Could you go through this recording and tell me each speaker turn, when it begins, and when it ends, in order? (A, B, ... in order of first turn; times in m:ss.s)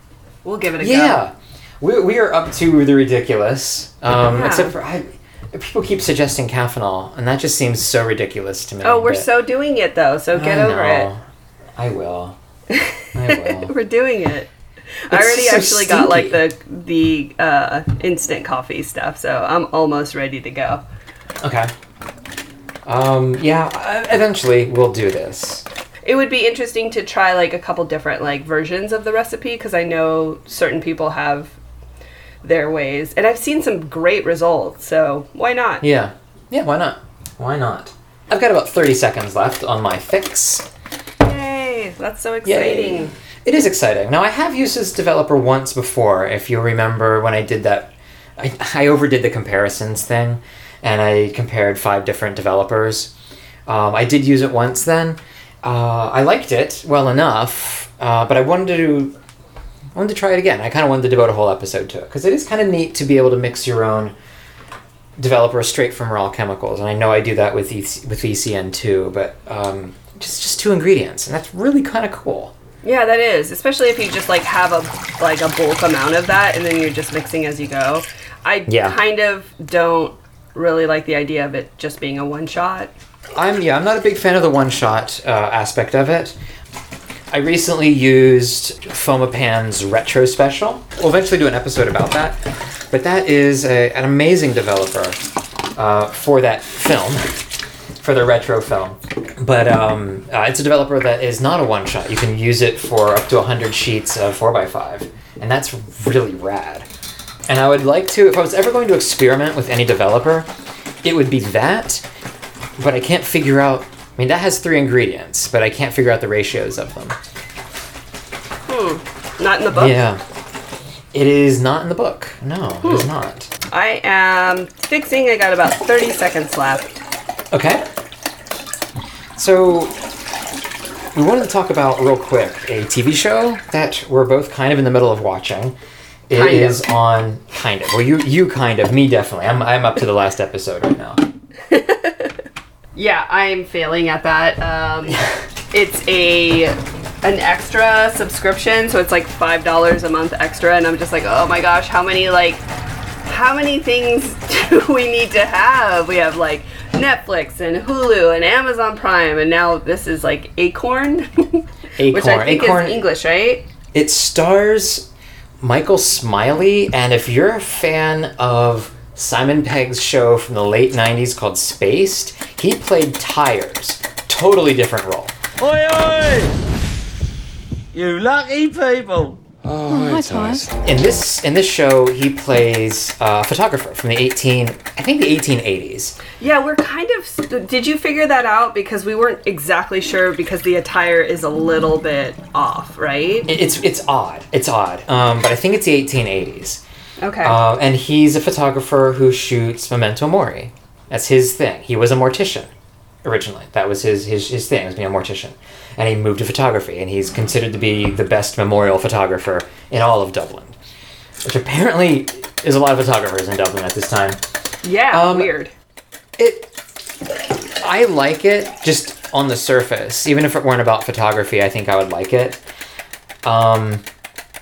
0:00.4-0:01.2 A
0:00.8-0:09.3 B
0:04.3-0:04.7 A
0:08.8-0:11.1 A
0:10.3-0:11.2 B
0:11.8-0:12.4 B
0:12.7-0:14.5 A
0:13.1-0:13.7 B
0:15.1-0:20.8 A
0:15.1-0:16.4 B
0:21.4-0:21.7 B
0:22.8-0:25.6 B
0:26.0-0:31.6 A
0:32.4-0:35.8 A
0:35.8-0:40.7 B
0:41.2-0:43.1 A
0:42.4-0:53.1 B
0:53.6-0:59.1 B
0:59.9-1:04.1 B
1:05.2-1:12.5 B
1:12.8-1:22.9 A
1:18.7-1:19.0 B
1:23.3-1:26.3 B
1:27.3-1:35.2 B
1:35.7-1:46.9 B
1:47.5-1:50.5 B
1:51.0-1:52.0 B
1:52.8-1:57.2 B
1:58.7-2:00.0 A
1:59.7-2:00.2 B
2:01.1-2:03.5 B
2:02.8-2:03.1 A
2:03.7-2:07.0 A
2:07.5-2:07.8 B
2:09.4-2:09.9 B
2:11.1-2:15.8 B
2:16.3-2:21.2 B
2:16.3-2:16.8 A
2:21.7-2:22.3 A
2:22.9-2:32.6 A
2:33.2-2:43.6 A
2:42.0-2:43.0 B
2:43.9-2:45.1 B
2:45.6-2:55.3 B
2:55.6-2:56.6 C
2:57.9-3:00.7 C
2:59.9-3:06.2 B
3:06.4-3:13.5 A
3:13.5-3:16.8 B
3:17.2-3:17.6 A
3:17.4-3:22.7 B
3:23.2-3:30.7 B
3:31.4-3:34.4 B
3:34.8-3:35.7 A
3:35.1-3:35.5 B
3:36.4-3:36.7 B
3:37.8-3:42.6 B
3:43.4-3:44.0 B